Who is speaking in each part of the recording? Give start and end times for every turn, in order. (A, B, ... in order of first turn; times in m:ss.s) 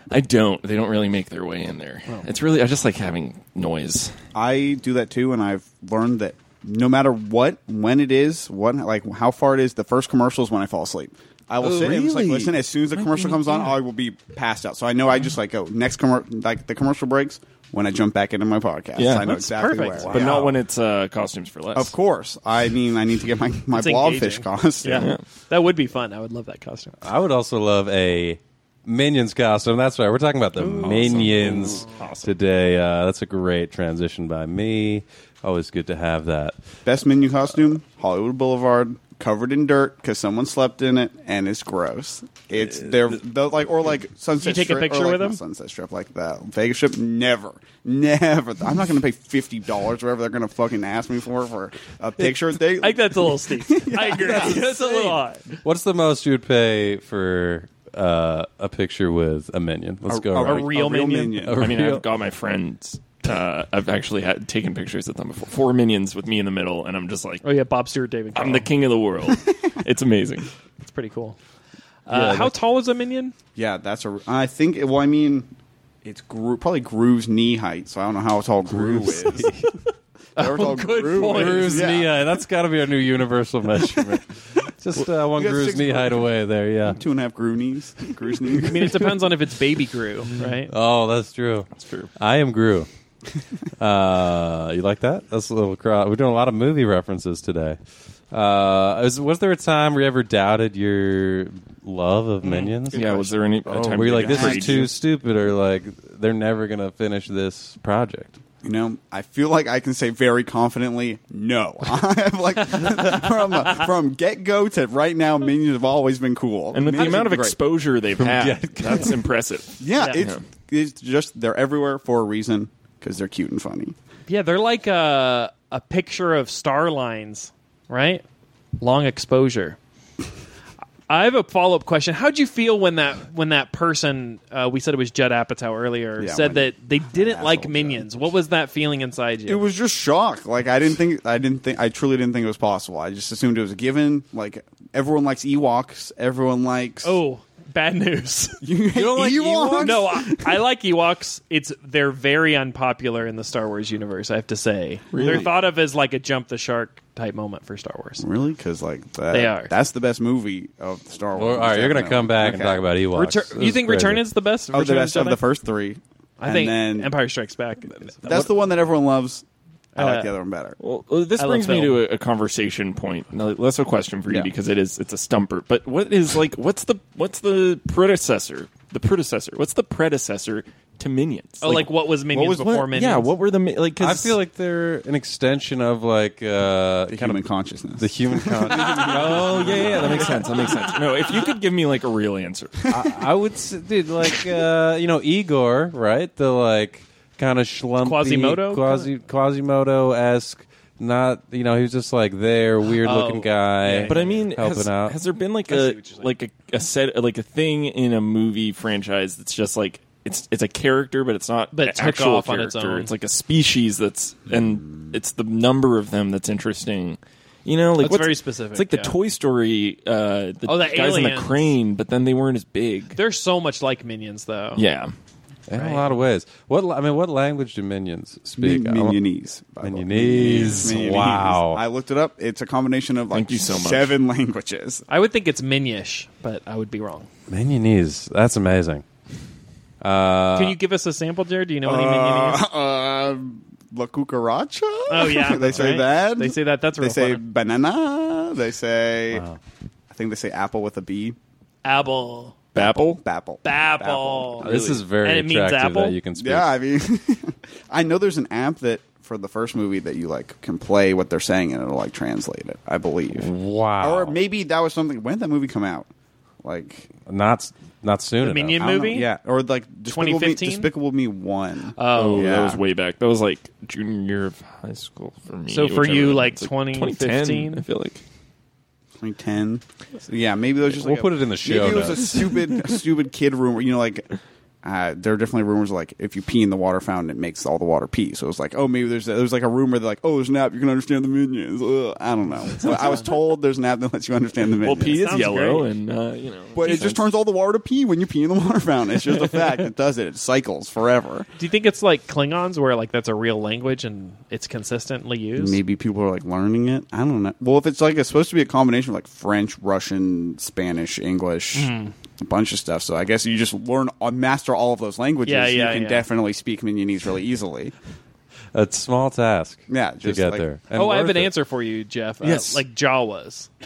0:00.1-0:04.1 A
0:04.3-0:20.5 B
0:11.6-0:13.7 A
0:19.0-0:19.4 A
0:19.3-0:20.4 C
0:20.0-0:20.3 D
0:20.1-0:21.9 A
0:21.7-0:25.1 B
0:23.7-0:27.0 C
0:24.8-0:25.2 A
0:27.0-0:36.6 D
0:30.6-0:32.3 A
0:30.8-0:31.1 B
0:36.8-0:54.7 B
0:44.4-0:45.4 C
0:52.8-0:55.4 C
0:54.2-0:54.6 D
0:55.6-1:00.7 D
1:00.1-1:01.7 B
1:00.4-1:01.5 C
1:01.4-1:02.0 D
1:01.6-1:07.4 A
1:07.4-1:08.7 C
1:08.3-1:10.5 A
1:10.8-1:11.4 C
1:12.1-1:13.3 C
1:12.1-1:12.5 D
1:13.6-1:15.5 B
1:16.0-1:19.6 B
1:18.7-1:19.7 D
1:20.4-1:22.0 C
1:20.4-1:22.1 B
1:21.2-1:27.0 D
1:25.0-1:26.3 B
1:26.9-1:29.1 B
1:28.5-1:30.7 C
1:30.7-1:32.9 D
1:31.7-1:32.1 A
1:33.8-1:37.8 D
1:38.3-1:43.1 D
1:42.4-1:42.7 C
1:42.9-1:44.9 A
1:43.6-1:44.9 B
1:43.7-1:48.4 D
1:48.6-1:57.6 B
1:56.7-2:00.4 A
1:58.2-1:59.2 D
1:59.8-2:03.9 B
2:00.0-2:00.2 C
2:04.3-2:08.2 C
2:08.8-2:09.8 C
2:11.1-2:19.6 C
2:16.2-2:18.1 B
2:19.5-2:27.2 B
2:27.0-2:28.6 C
2:28.6-2:30.6 B
2:28.9-2:30.0 D
2:29.8-2:38.2 C
2:35.1-2:35.5 A
2:35.1-2:35.5 B
2:38.2-2:42.8 B
2:39.3-2:39.7 C
2:41.3-2:44.2 D
2:43.1-2:45.4 C
2:44.7-2:47.1 B
2:46.4-2:48.5 C
2:48.2-2:50.8 B
2:50.0-2:50.3 C
2:50.8-3:01.9 A
2:51.4-2:52.0 C
3:01.6-3:03.3 C
3:02.3-3:02.8 B
3:02.4-3:04.4 A
3:04.0-3:07.4 D
3:07.1-3:11.0 B
3:08.0-3:10.5 D
3:08.7-3:12.9 A
3:12.9-3:13.2 B
3:12.9-3:25.2 D
3:18.0-3:19.1 C
3:22.9-3:24.4 C
3:24.0-3:43.2 A
3:25.7-3:26.3 C
3:31.7-3:33.1 C
3:38.0-3:39.1 C
3:40.6-3:41.7 C
3:43.2-3:44.8 C
3:44.8-3:45.1 A
3:45.7-3:49.2 D
3:45.7-3:46.1 C
3:48.6-3:55.0 B
3:49.8-3:51.8 D
3:50.4-3:50.9 A
3:53.3-3:54.2 A
3:55.1-3:57.3 C
3:57.5-3:59.0 D
4:00.0-4:00.8 D
4:00.5-4:02.6 C
4:01.8-4:09.4 B
4:05.1-4:07.4 C
4:09.3-4:09.6 D
4:10.1-4:11.4 B
4:11.8-4:12.6 C
4:12.7-4:13.2 A
4:12.7-4:14.9 B
4:13.6-4:16.2 C
4:14.6-4:16.7 D
4:16.4-4:26.1 B
4:23.3-4:24.4 D
4:26.6-4:27.1 B
4:27.2-4:28.9 D
4:28.4-4:29.3 C
4:28.8-4:32.8 B
4:30.1-4:30.9 C
4:32.0-4:32.6 C
4:32.1-4:38.2 A
4:35.7-4:37.8 C
4:39.2-4:55.3 B
4:40.9-4:42.8 D
4:52.8-4:53.3 C
4:52.8-4:53.2 A
4:54.8-4:57.2 A
4:55.1-4:55.9 C
4:56.7-5:01.5 B
5:01.6-5:05.8 C
5:05.6-5:17.9 B
5:11.7-5:12.1 C
5:15.4-5:16.2 C
5:18.7-5:21.5 D
5:19.9-5:20.6 B
5:20.9-5:23.7 C
5:22.4-5:22.8 A